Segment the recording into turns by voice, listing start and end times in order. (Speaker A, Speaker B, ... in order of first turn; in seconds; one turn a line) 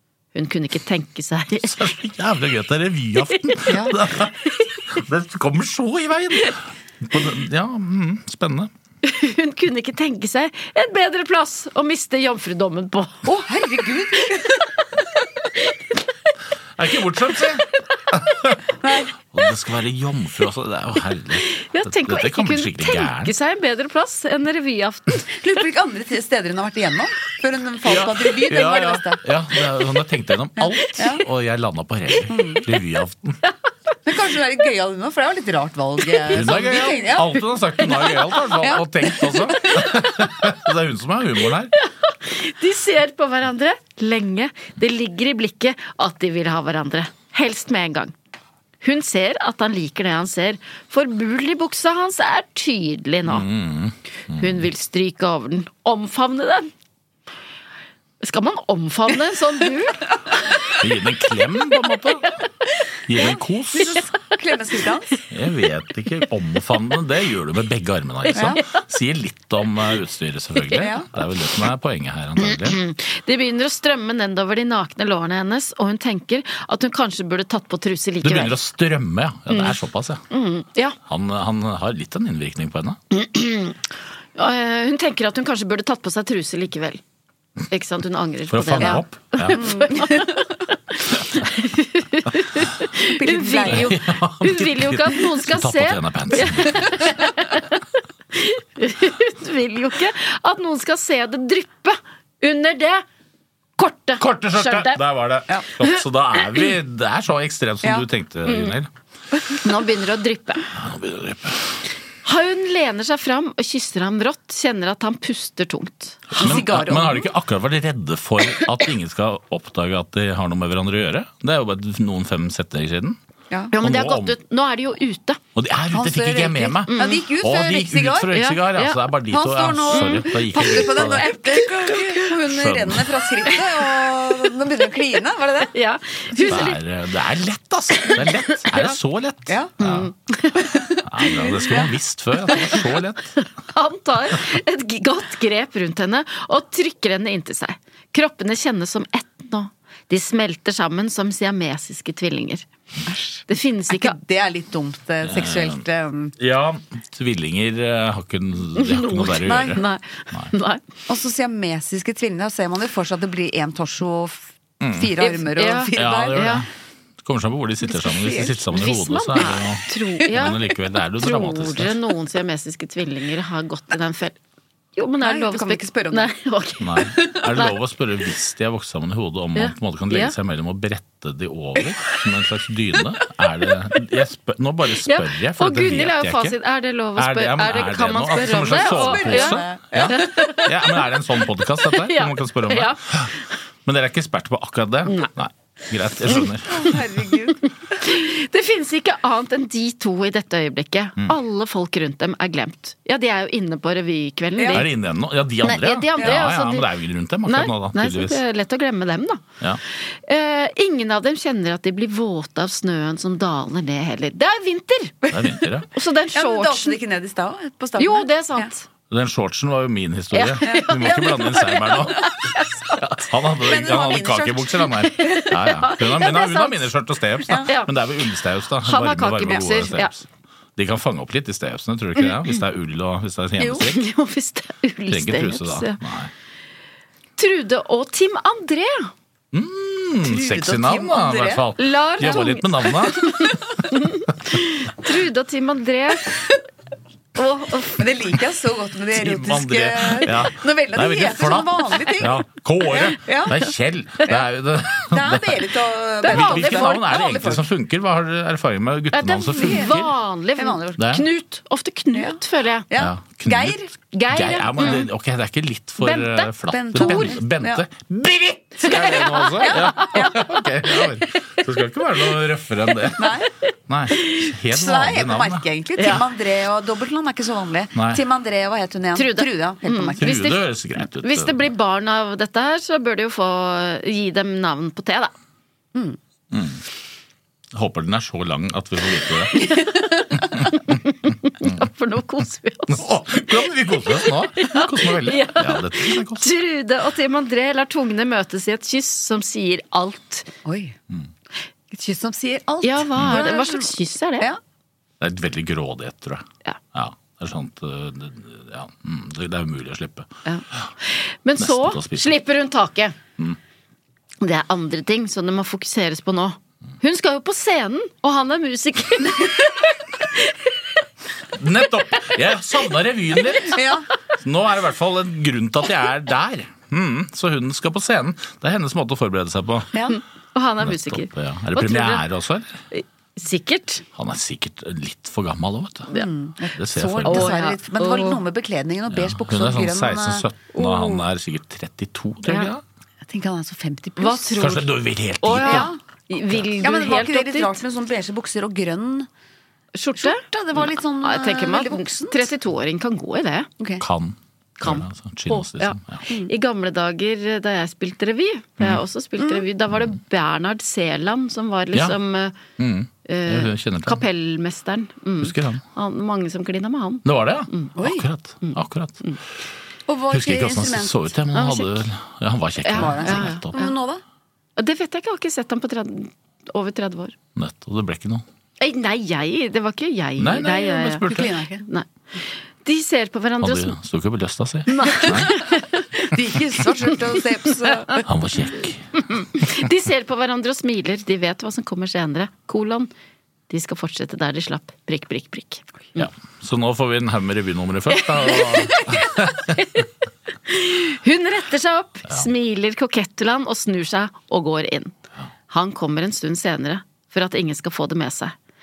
Speaker A: 0.3-1.8
Speaker B: 1.6-8.7
Speaker C: 3.7-3.9
Speaker A: 9.0-13.2
Speaker C: 13.2-14.7
Speaker B: 16.8-18.6
Speaker C: 18.8-19.1
Speaker B: 19.3-23.3
Speaker A: 21.5-25.3
Speaker C: 25.3-29.2
Speaker B: 27.8-33.4
Speaker C: 31.0-31.2
Speaker C: 32.3-32.6
Speaker C: 34.0-38.0
Speaker B: 36.3-41.7
Speaker C: 38.6-39.6
Speaker A: 41.8-48.1
Speaker A: 48.8-53.5
Speaker B: 53.2-54.6
Speaker A: 54.4-56.7
Speaker A: 58.2-60.1
Speaker B: 60.8-62.3
Speaker B: 63.1-64.0
Speaker C: 63.2-65.2
Speaker B: 65.3-72.8
Speaker A: 68.3-68.7
Speaker C: 68.3-68.6
Speaker C: 70.7-71.1
Speaker A: 72.4-78.5
Speaker B: 78.2-80.2
Speaker A: 79.5-79.8
Speaker A: 80.3-81.0
Speaker B: 81.0-83.0
Speaker A: 83.1-83.8
Speaker A: 84.3-87.0
Speaker A: 87.7-90.4
Speaker B: 88.5-89.7
Speaker C: 89.5-90.5
Speaker A: 90.9-97.8
Speaker C: 93.1-93.9
Speaker B: 93.7-97.1
Speaker A: 98.3-103.0
Speaker A: 103.8-105.0
Speaker B: 104.2-108.9
Speaker A: 105.8-106.7
Speaker A: 108.5-108.7
Speaker A: 109.6-110.7
Speaker B: 110.7-111.8
Speaker A: 112.2-116.4
Speaker B: 116.3-123.2
Speaker C: 116.3-117.3
Speaker A: 123.7-125.4
Speaker B: 123.8-124.3
Speaker B: 125.5-131.3
Speaker C: 125.9-128.3
Speaker A: 126.9-127.2
Speaker A: 128.3-129.0
Speaker C: 129.3-135.7
Speaker A: 129.9-132.3
Speaker B: 132.4-133.1
Speaker A: 135.7-136.8
Speaker B: 136.5-140.1
Speaker A: 138.0-138.9
Speaker A: 139.8-140.7
Speaker C: 140.6-141.8
Speaker B: 141.1-143.3
Speaker A: 143.4-152.7
Speaker C: 153.1-156.3
Speaker A: 153.5-154.2
Speaker B: 155.2-155.8
Speaker B: 156.4-160.5
Speaker A: 158.8-160.8
Speaker C: 159.4-159.8
Speaker C: 161.1-166.6
Speaker B: 164.8-165.1
Speaker A: 165.2-166.6
Speaker B: 165.9-166.7
Speaker B: 167.2-171.9
Speaker C: 167.9-168.6
Speaker A: 168.7-170.6
Speaker A: 171.2-174.4
Speaker A: 174.9-176.8
Speaker C: 175.2-176.3
Speaker B: 176.8-186.6
Speaker A: 179.6-180.3
Speaker A: 185.1-190.7
Speaker B: 187.2-193.3
Speaker C: 188.4-190.6
Speaker A: 191.9-193.0
Speaker B: 193.8-197.0
Speaker C: 196.7-197.7
Speaker A: 198.0-204.9
Speaker C: 204.6-204.8
Speaker B: 204.7-208.4
Speaker A: 205.6-206.9
Speaker C: 206.2-206.4
Speaker A: 207.4-209.4
Speaker A: 210.1-215.2
Speaker B: 215.3-215.9
Speaker A: 215.9-216.9
Speaker C: 216.3-218.7
Speaker A: 218.0-218.8
Speaker B: 219.1-222.3
Speaker A: 220.3-223.1
Speaker C: 220.6-221.2
Speaker B: 223.2-230.2
Speaker C: 223.6-225.0
Speaker A: 225.1-226.9
Speaker A: 227.6-227.9
Speaker A: 228.8-230.1
Speaker B: 230.8-234.0
Speaker A: 233.8-236.0
Speaker B: 235.1-236.3
Speaker A: 237.4-239.1
Speaker B: 239.5-243.5
Speaker C: 240.2-241.6
Speaker A: 241.8-246.4
Speaker A: 247.3-248.0
Speaker C: 248.0-253.6
Speaker B: 249.1-255.7
Speaker C: 255.1-257.6
Speaker A: 256.2-257.1
Speaker B: 256.2-260.1
Speaker A: 259.1-262.9
Speaker C: 259.5-260.0
Speaker C: 260.6-261.0
Speaker B: 261.0-261.2
Speaker C: 262.1-262.4
Speaker C: 262.9-263.9
Speaker B: 262.9-263.8
Speaker A: 264.1-265.1
Speaker B: 264.3-275.6
Speaker A: 266.0-267.4
Speaker C: 266.7-267.8
Speaker A: 268.8-270.3
Speaker C: 268.8-270.4
Speaker C: 273.2-273.5
Speaker C: 274.7-280.3
Speaker A: 276.0-276.2
Speaker B: 277.9-278.2
Speaker A: 279.1-280.6
Speaker B: 280.2-281.7
Speaker A: 281.2-285.3
Speaker B: 286.5-286.8
Speaker B: 287.7-289.6
Speaker A: 289.7-289.9
Speaker A: 290.7-293.1
Speaker B: 292.9-296.4
Speaker A: 294.6-300.5
Speaker C: 300.6-300.9
Speaker C: 301.9-304.6
Speaker A: 302.8-304.5
Speaker B: 303.2-303.4
Speaker B: 305.2-310.3
Speaker A: 310.4-313.2
Speaker B: 311.6-312.4
Speaker A: 314.4-320.6
Speaker B: 321.6-323.8
Speaker C: 323.7-324.1
Speaker B: 324.4-329.9
Speaker C: 329.9-330.2
Speaker A: 330.1-332.2
Speaker B: 330.8-332.8
Speaker A: 332.9-334.0
Speaker B: 334.1-336.1
Speaker C: 336.1-341.1
Speaker B: 336.8-337.5
Speaker A: 337.2-338.4
Speaker B: 339.1-342.8
Speaker A: 342.4-342.7
Speaker C: 343.3-344.7
Speaker A: 344.2-344.9
Speaker B: 344.6-345.9
Speaker A: 345.4-347.8
Speaker C: 345.5-346.0
Speaker C: 346.8-349.3
Speaker A: 349.9-353.7
Speaker C: 350.2-352.5
Speaker B: 354.0-356.2
Speaker A: 354.8-362.6
Speaker C: 359.4-359.6
Speaker B: 362.8-364.2
Speaker A: 363.2-367.9
Speaker B: 365.4-365.8
Speaker B: 367.2-369.2
Speaker C: 368.0-368.2
Speaker A: 368.6-369.4
Speaker C: 370.1-371.3
Speaker B: 370.3-373.7
Speaker A: 371.5-372.0
Speaker A: 372.8-373.9
Speaker C: 372.9-374.2
Speaker A: 374.8-377.3
Speaker B: 377.6-378.4
Speaker A: 378.8-381.2
Speaker B: 380.4-381.5
Speaker C: 381.3-381.8
Speaker A: 381.8-383.9
Speaker B: 383.6-385.5
Speaker A: 384.9-386.0
Speaker C: 385.2-385.5
Speaker C: 386.1-388.2
Speaker B: 388.2-389.2
Speaker A: 389.2-393.1
Speaker A: 393.7-396.3
Speaker B: 396.1-399.8
Speaker A: 398.1-399.2
Speaker A: 399.7-400.0
Speaker A: 400.6-405.1
Speaker A: 405.7-408.6